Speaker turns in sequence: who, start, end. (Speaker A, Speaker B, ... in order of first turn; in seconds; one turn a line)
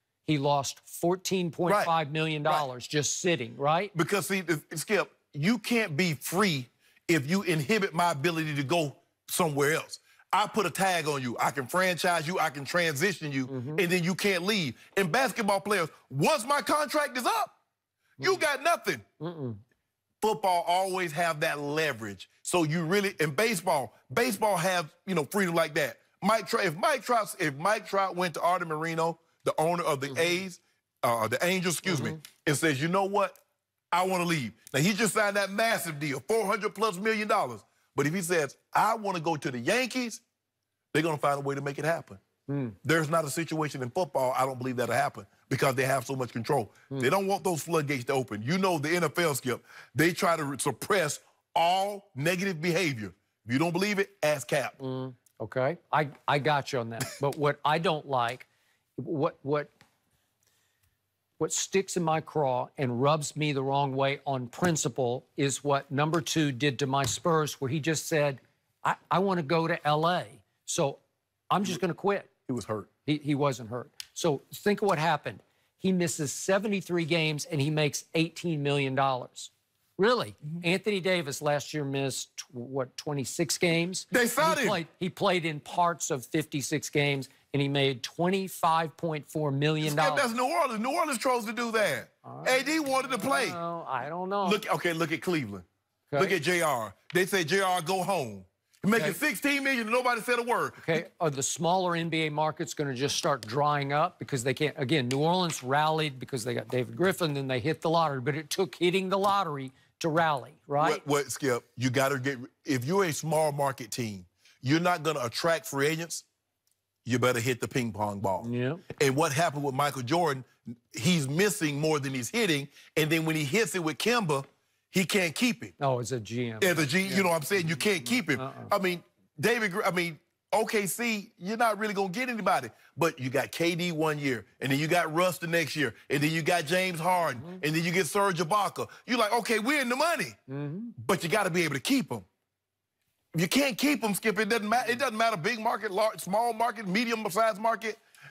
Speaker A: 0.3-3.9
Speaker B: 1.7-1.9
Speaker B: 3.9-17.6
Speaker A: 13.5-13.8
Speaker B: 18.2-19.0
Speaker A: 19.2-19.6
Speaker B: 20.2-33.4
Speaker A: 31.9-32.2
Speaker B: 33.9-40.2
Speaker B: 40.9-42.2
Speaker A: 42.5-42.8
Speaker B: 42.8-54.8
Speaker A: 54.8-59.7
Speaker A: 61.4-71.0
Speaker A: 71.5-72.3
Speaker B: 72.5-72.9
Speaker A: 73.1-90.3
Speaker B: 84.1-84.8
Speaker B: 89.8-93.6
Speaker A: 92.2-94.6
Speaker B: 94.4-95.7
Speaker A: 96.1-96.4
Speaker B: 96.2-101.0
Speaker A: 98.9-99.2
Speaker A: 100.8-111.0
Speaker B: 110.8-116.2
Speaker B: 117.0-125.8
Speaker A: 118.4-118.8
Speaker A: 125.8-128.7
Speaker B: 126.6-140.4
Speaker A: 140.5-140.9
Speaker B: 141.0-142.3
Speaker B: 143.3-148.0